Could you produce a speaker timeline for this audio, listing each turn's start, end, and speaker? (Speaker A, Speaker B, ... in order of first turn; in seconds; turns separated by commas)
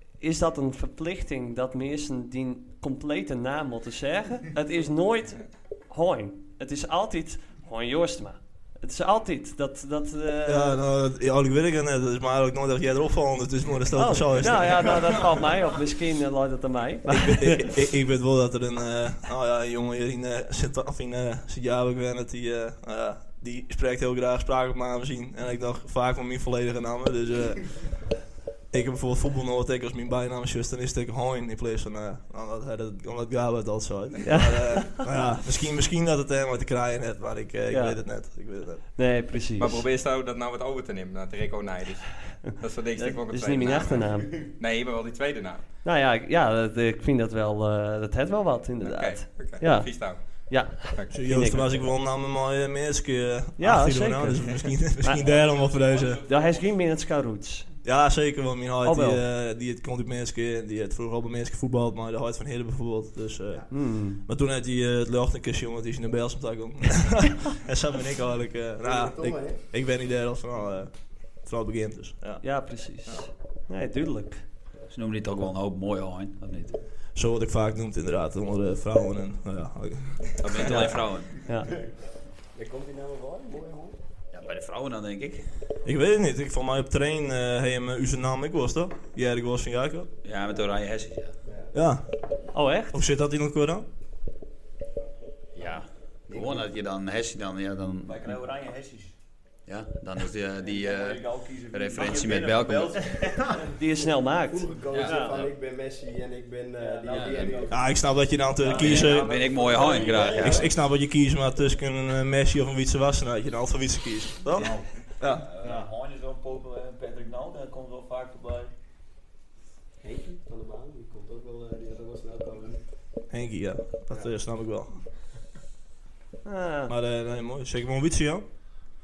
Speaker A: 0.2-10.8, Speaker B: 10.5-15.2, Speaker A: 13.9-17.7, Speaker B: 17.1-28.0, Speaker B: 28.7-38.9, Speaker A: 34.2-35.0, Speaker A: 37.7-38.0, Speaker A: 39.0-39.9, Speaker C: 39.6-45.6, Speaker A: 42.5-44.4, Speaker A: 45.8-51.8, Speaker C: 48.8-50.2, Speaker C: 50.8-51.1, Speaker B: 51.1-56.2, Speaker A: 53.6-55.2, Speaker D: 55.3-56.7, Speaker A: 56.2-57.7, Speaker B: 57.8-72.5, Speaker A: 58.8-59.2, Speaker A: 63.7-64.2, Speaker E: 68.8-69.6, Speaker A: 72.4-74.5, Speaker D: 74.9-76.8, Speaker B: 77.2-80.8, Speaker D: 80.4-81.4, Speaker A: 80.6-81.7, Speaker E: 82.5-84.0, Speaker D: 84.3-85.5, Speaker B: 85.8-90.1, Speaker D: 90.2-91.4, Speaker E: 91.5-91.7, Speaker B: 91.7-92.1, Speaker A: 92.5-93.0, Speaker B: 92.9-93.9, Speaker D: 95.5-98.3, Speaker F: 96.3-96.6, Speaker F: 98.0-99.2, Speaker D: 99.7-103.2, Speaker F: 100.6-103.5, Speaker A: 103.8-105.3, Speaker E: 104.5-107.8, Speaker D: 104.9-105.5, Speaker F: 105.2-105.4, Speaker F: 106.8-110.7, Speaker D: 107.1-107.6, Speaker B: 107.7-109.4, Speaker D: 108.6-110.7, Speaker E: 109.7-110.4, Speaker B: 110.3-115.5, Speaker D: 114.6-114.9, Speaker F: 115.2-118.7, Speaker E: 120.0-122.8, Speaker B: 123.3-124.9, Speaker A: 126.5-126.9, Speaker B: 126.9-128.4